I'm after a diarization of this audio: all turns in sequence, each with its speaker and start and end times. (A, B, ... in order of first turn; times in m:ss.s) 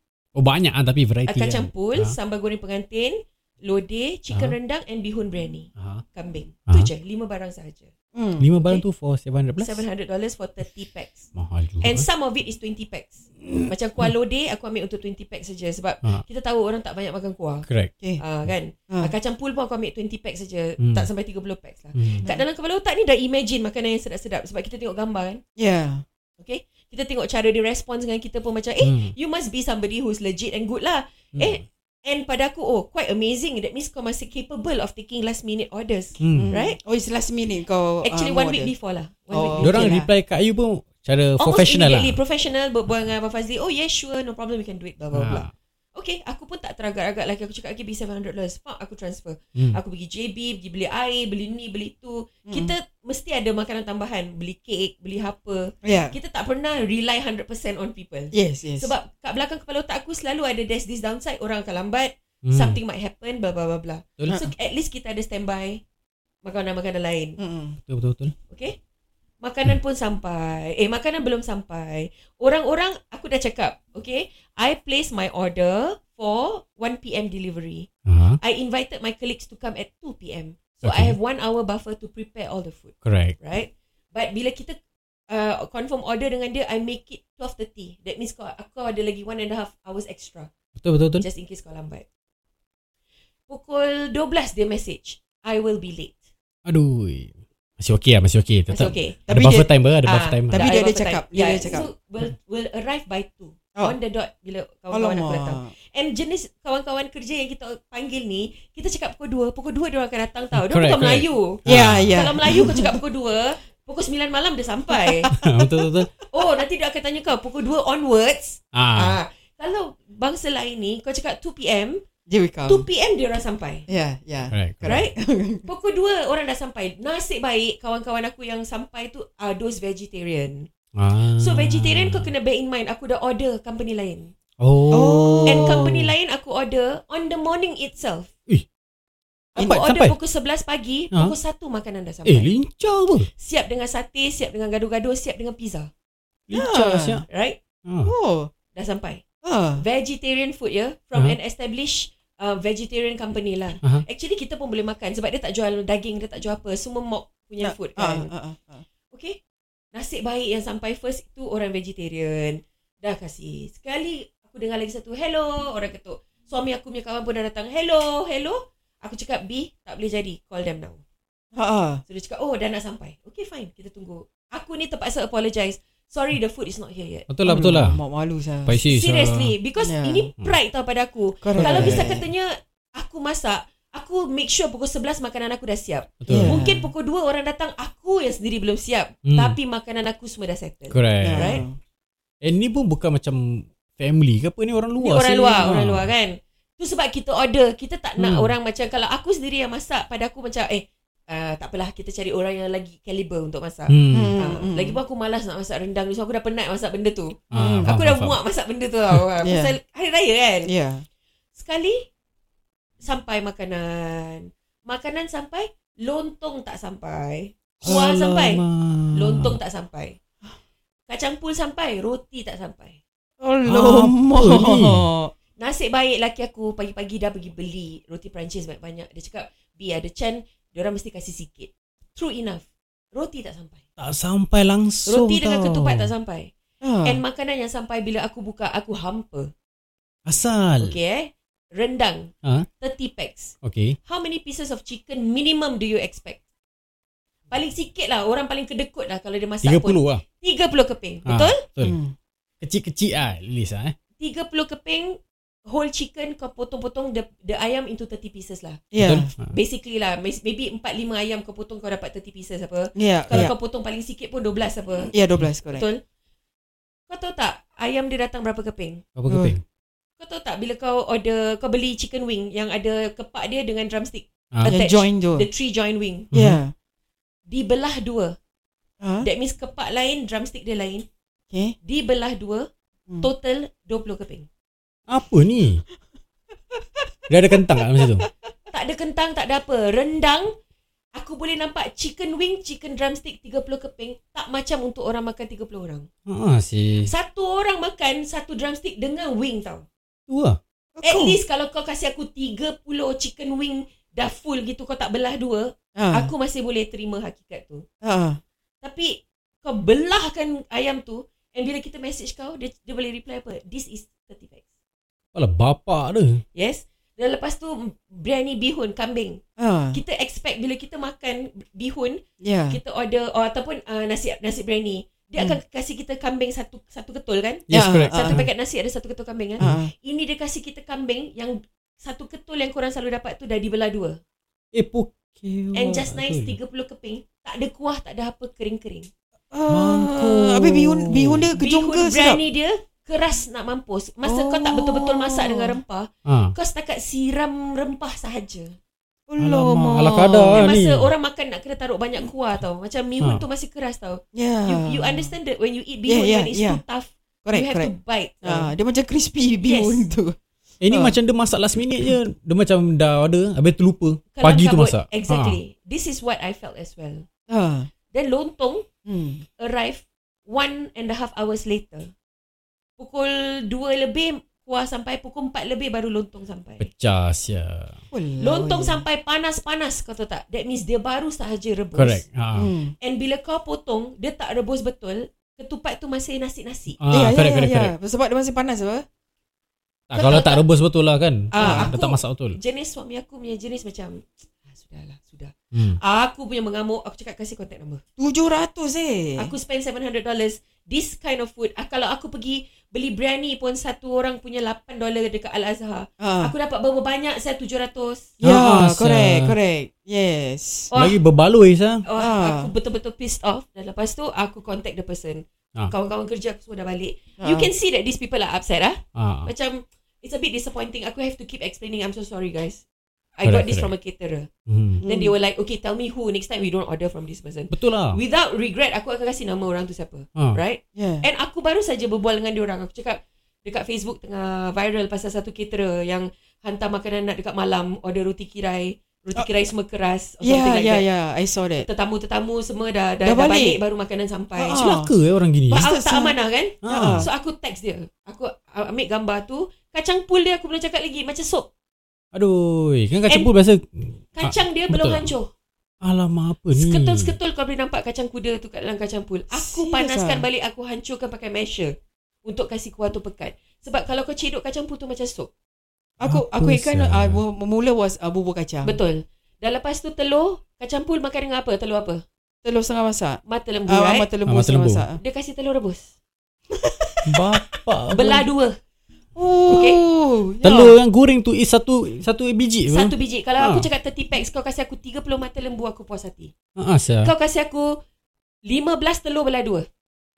0:00.3-0:02.1 A
0:01.2-0:07.9 B
0:04.3-0:04.6 A
0:05.8-0:06.0 A
0:08.1-0:08.5 C
0:08.4-0:09.8 A
0:09.6-0:11.3 B
0:11.3-0:12.0 A
0:11.8-0:17.7 B
0:18.2-0:25.4 B
0:20.8-0:21.1 A
0:22.0-0:22.2 A
0:25.6-0:26.0 C
0:26.4-0:36.8 B
0:28.8-0:29.1 A
0:31.3-0:31.6 A
0:36.2-0:36.5 A
0:36.3-0:38.7 C
0:38.0-0:40.0 B
0:39.3-0:40.1 C
0:39.6-0:42.2 A
0:41.4-1:05.8 B
0:45.1-0:45.5 A
0:52.5-0:52.7 C
0:55.8-0:56.2 C
0:58.3-0:58.9 C
1:02.4-1:02.8 A
1:06.4-1:07.4 B
1:07.4-1:07.8 C
1:07.9-1:08.3 A
1:08.5-1:08.7 B
1:09.4-1:17.9 B
1:18.1-1:18.4 A
1:18.4-1:24.8 B
1:20.8-1:21.2 A
1:23.0-1:23.3 A
1:25.3-1:30.5 B
1:30.8-1:31.2 A
1:31.2-1:32.0 B
1:33.5-1:36.2 B
1:36.6-1:40.6 A
1:38.7-1:39.2 B
1:39.3-1:39.7 C
1:40.0-1:55.3 B
1:40.5-1:41.9 C
1:44.9-1:45.7 C
1:50.5-1:52.7 A
1:51.6-1:53.0 C
1:54.9-1:55.9 C
1:55.3-1:56.1 A
1:56.3-2:02.0 B
1:58.7-1:59.2 A
2:02.3-2:02.8 C
2:02.6-2:03.8 B
2:03.9-2:05.6 C
2:04.5-2:05.0 A
2:04.8-2:10.6 B
2:11.0-2:12.3 A
2:11.4-2:14.3 B
2:14.6-2:16.1 A
2:14.9-2:15.8 C
2:15.4-2:18.3 B
2:19.6-2:22.5 B
2:19.6-2:20.2 A
2:22.2-2:23.3 A
2:23.3-2:25.9 B
2:26.5-2:27.2 A
2:26.5-2:27.2 C
2:27.3-2:27.6 B
2:27.8-2:28.1 A
2:28.0-2:28.5 C
2:28.7-2:29.2 B
2:29.4-2:29.8 C
2:29.8-2:38.3 B
2:37.6-2:38.8 C
2:39.1-2:39.4 B
2:39.9-2:51.0 B
2:51.6-2:52.0 C
2:52.1-2:57.3 B
2:57.3-2:58.0 A
2:57.4-2:58.7 C
2:58.6-2:59.5 A
2:58.8-3:11.6 B
2:59.8-3:00.3 C
3:01.4-3:02.2 C
3:01.6-3:02.1 A
3:06.2-3:06.6 A
3:06.3-3:06.9 C
3:09.3-3:09.6 A
3:10.9-3:11.6 A
3:11.2-3:11.8 C
3:12.4-3:16.1 A
3:15.0-3:30.7 B
3:18.2-3:18.5 A
3:23.9-3:24.4 A
3:24.1-3:25.0 C
3:27.5-3:28.4 A
3:27.5-3:27.9 C
3:29.4-3:29.8 C
3:30.6-3:31.0 C
3:31.5-3:32.0 B
3:33.0-3:38.6 B
3:37.8-3:39.6 A
3:39.1-3:40.2 B
3:41.1-3:43.0 B
3:43.4-3:45.3 C
3:43.6-3:45.0 A
3:45.6-3:53.8 B
3:54.0-3:56.1 A
3:55.1-3:56.5 B
3:56.8-3:57.2 C
3:57.0-3:59.5 B
4:00.2-4:00.9 A
4:00.8-4:06.4 B
4:03.6-4:03.9 A
4:07.5-4:11.6 B
4:09.6-4:10.2 A
4:11.2-4:12.0 A
4:11.8-4:12.1 C
4:12.6-4:13.9 A
4:14.2-4:18.8 B
4:18.9-4:19.3 C
4:19.0-4:19.5 A
4:19.5-4:25.1 B
4:22.9-4:23.5 C
4:25.1-4:25.9 C
4:25.7-4:26.0 B
4:27.1-4:29.0 B
4:29.2-4:29.6 A
4:29.3-4:29.6 C
4:30.2-4:36.3 B
4:34.5-4:34.8 A
4:34.7-4:35.5 C
4:36.3-4:36.6 A
4:36.3-4:36.7 C
4:37.5-4:38.4 B
4:39.0-4:39.3 C
4:39.2-4:41.0 B
4:41.5-4:41.8 C
4:41.8-4:42.7 B
4:43.2-4:44.5 B
4:45.1-4:45.8 A
4:46.8-4:48.2 C
4:47.3-4:48.2 A
4:48.7-4:50.5 B
4:51.2-4:56.1 B
4:56.3-4:57.1 A
4:57.0-4:59.8 B
5:00.3-5:00.6 A
5:01.0-5:01.4 C
5:01.0-5:07.8 B
5:06.0-5:06.3 C
5:08.0-5:08.4 C
5:08.8-5:14.6 B
5:15.3-5:16.4 A
5:16.5-5:19.4 B
5:19.6-5:20.0 C
5:19.9-5:34.2 B
5:22.4-5:22.8 C
5:27.7-5:28.5 A
5:27.7-5:28.4 C
5:29.6-5:29.9 C
5:34.7-5:36.6 A
5:35.7-5:39.1 B
5:39.5-5:42.4 C
5:39.7-5:41.5 A
5:41.6-5:48.8 B
5:44.2-5:45.8 C
5:46.2-5:46.5 A
5:49.3-5:50.7 C
5:49.4-5:51.1 A
5:50.5-5:58.7 B
5:54.3-5:55.3 C
5:56.0-5:56.8 C
5:57.4-6:00.4 C
5:59.6-6:00.1 B
6:00.8-6:05.6 A
6:00.9-6:01.2 C
6:04.3-6:07.2 B
6:07.5-6:07.9 C
6:08.1-6:08.8 B
6:09.0-6:09.4 C
6:09.6-6:12.1 B
6:13.0-6:16.9 B
6:16.8-6:17.9 A
6:18.1-6:19.0 C
6:18.4-6:22.2 B
6:21.9-6:22.7 A
6:22.5-6:22.9 C
6:23.0-6:27.0 B
6:27.0-6:27.9 A
6:27.1-6:29.0 C
6:30.1-6:32.6 A
6:30.1-6:30.6 B
6:31.5-6:38.0 B
6:31.5-6:31.9 C
6:35.7-6:36.0 A
6:38.2-6:39.5 C
6:39.4-6:48.3 B
6:46.2-6:46.5 C
6:48.4-6:50.9 C
6:48.4-6:49.5 A
6:50.9-6:51.2 B
6:50.9-6:52.0 A
6:52.0-7:02.8 B
6:52.2-6:52.7 C
6:57.4-6:57.7 C
6:59.2-6:59.5 A
7:03.4-7:04.5 B
7:03.4-7:03.9 A
7:04.7-7:05.0 A
7:05.0-7:05.3 C
7:05.0-7:21.1 B
7:07.7-7:08.2 A
7:10.9-7:11.2 C
7:20.4-7:21.9 C
7:21.8-7:25.0 B
7:23.2-7:23.8 C
7:24.6-7:25.1 C
7:24.8-7:25.9 A
7:25.7-7:27.3 C
7:25.7-7:31.7 B
7:26.8-7:27.3 A
7:32.3-7:35.3 A
7:34.4-7:35.5 B
7:36.0-7:37.3 A
7:36.8-7:41.9 B
7:39.5-7:40.4 C
7:42.4-7:45.5 B
7:46.2-7:49.0 C
7:46.2-7:47.4 A
7:48.8-7:52.2 B
7:52.6-7:55.2 C
7:53.4-7:54.3 B
7:54.4-7:55.1 A
7:55.2-7:56.1 B
7:56.8-7:57.2 C
7:57.3-7:58.4 A
7:58.1-7:58.8 B
7:59.3-8:01.0 C
7:59.7-8:00.0 B
8:00.6-8:03.9 A
8:02.9-8:06.5 B
8:06.8-8:07.3 A
8:07.2-8:08.0 B
8:08.6-8:09.8 B